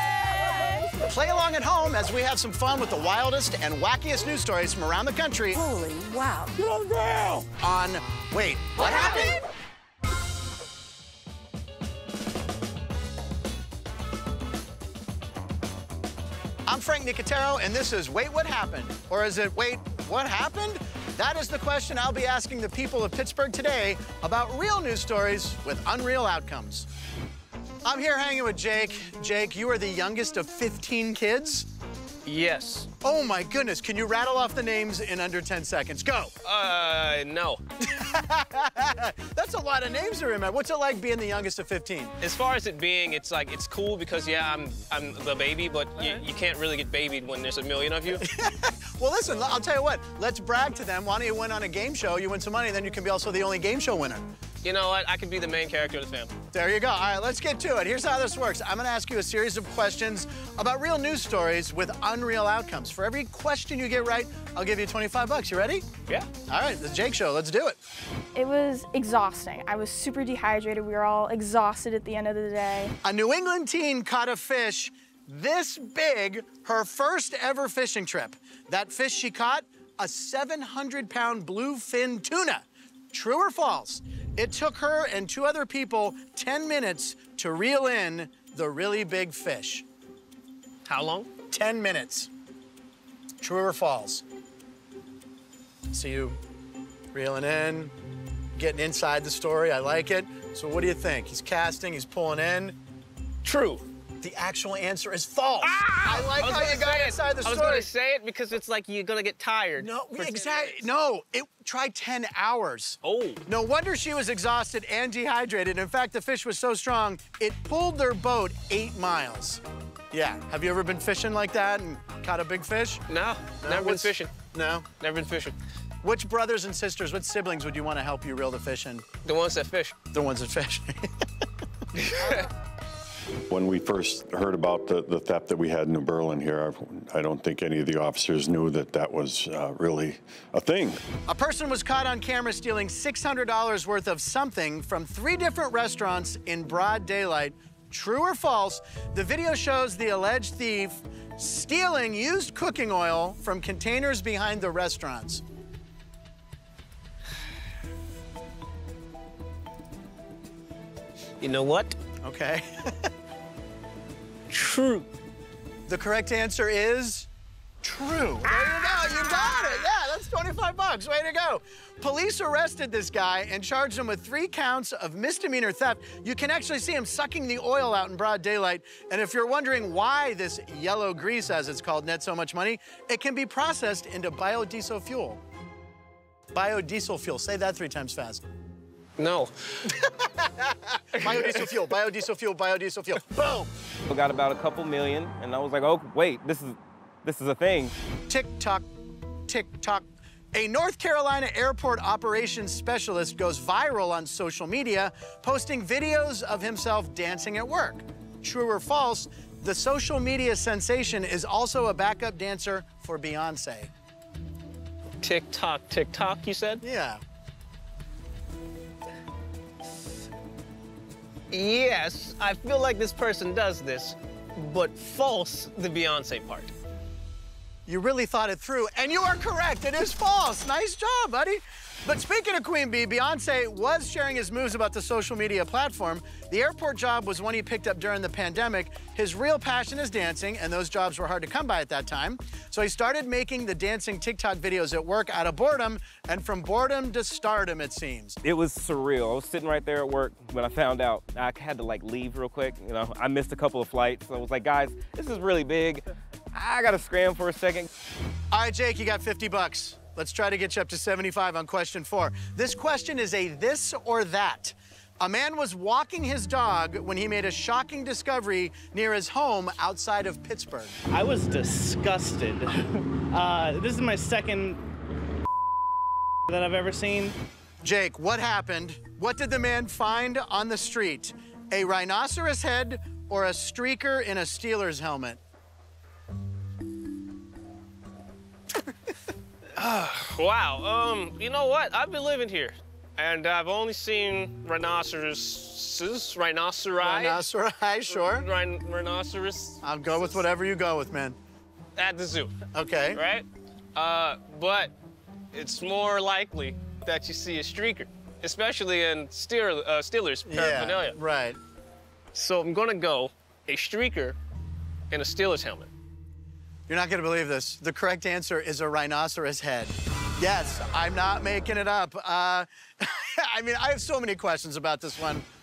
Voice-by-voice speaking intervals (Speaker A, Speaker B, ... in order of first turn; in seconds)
Speaker A: 0.2-0.9, 5.5-7.4, 8.8-9.4
Speaker B: 1.0-5.6, 7.6-9.4, 16.7-26.9, 27.8-31.7, 33.0-36.3, 37.8-42.1, 48.1-54.3, 56.5-65.8, 66.5-67.8, 73.0-89.8, 91.5-92.3, 93.4-94.2, 95.9-96.4, 97.1-97.9, 98.6-102.8, 104.2-107.9, 109.8-119.6, 120.1-123.0, 123.6-124.9, 126.0-129.1, 130.1-131.1, 141.3-155.4, 162.2-163.1, 165.9-167.3, 167.8-185.4, 186.5-188.4, 189.9-193.7, 198.3-198.9, 199.5-213.9, 216.8-217.2, 227.9-248.4, 258.5-271.0, 277.8-285.4, 297.0-298.5, 299.8-301.4, 302.7-303.2, 310.5-311.6, 316.9-325.4
Speaker C: 32.2-32.9, 36.4-37.6, 42.2-48.2, 54.6-56.3, 90.9-91.3, 103.4-103.8, 105.6-110.8, 113.0-113.4, 123.1-124.3, 125.0-125.5, 129.2-129.9, 132.0-132.5, 161.4-161.9, 164.5-165.1, 189.2-189.8, 191.2-191.9, 215.2-216.8, 221.5-226.7, 289.8-297.4, 298.1-300.4, 302.0-302.6, 303.1-304.9, 305.5-311.2, 312.4-314.4, 315.1-315.9
Speaker D: 68.3-72.9
Speaker E: 133.5-141.0
Speaker F: 194.1-197.9, 248.4-257.9
Speaker G: 271.1-274.8, 276.5-277.4